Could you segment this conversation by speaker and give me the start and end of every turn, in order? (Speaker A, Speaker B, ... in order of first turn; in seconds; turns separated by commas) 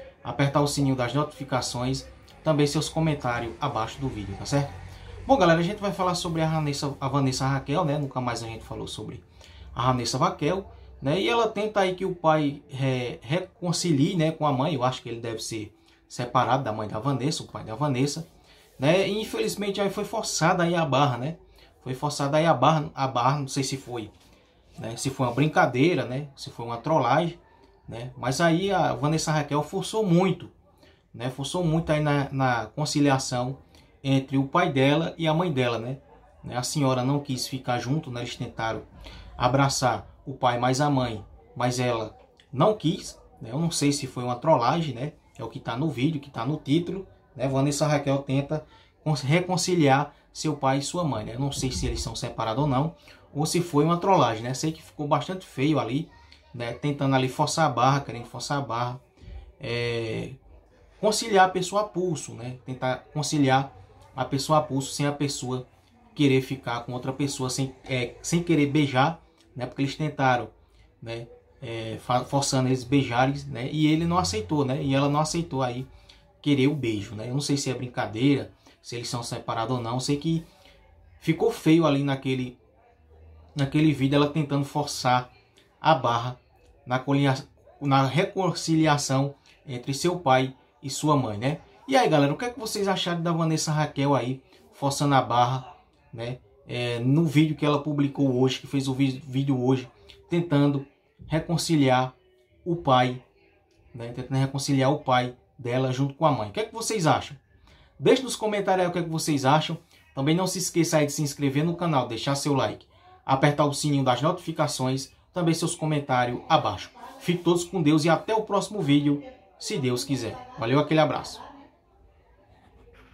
Speaker A: 0.2-4.7, Speaker A: 5.2-18.3, Speaker A: 18.8-24.1, Speaker A: 24.8-30.5, Speaker A: 31.1-38.9, Speaker A: 39.4-59.0, Speaker A: 59.6-60.4, Speaker A: 61.0-75.9, Speaker A: 76.4-80.4, Speaker A: 81.2-82.6, Speaker A: 83.5-102.1, Speaker A: 102.6-103.2, Speaker A: 103.9-107.4, Speaker A: 108.0-121.4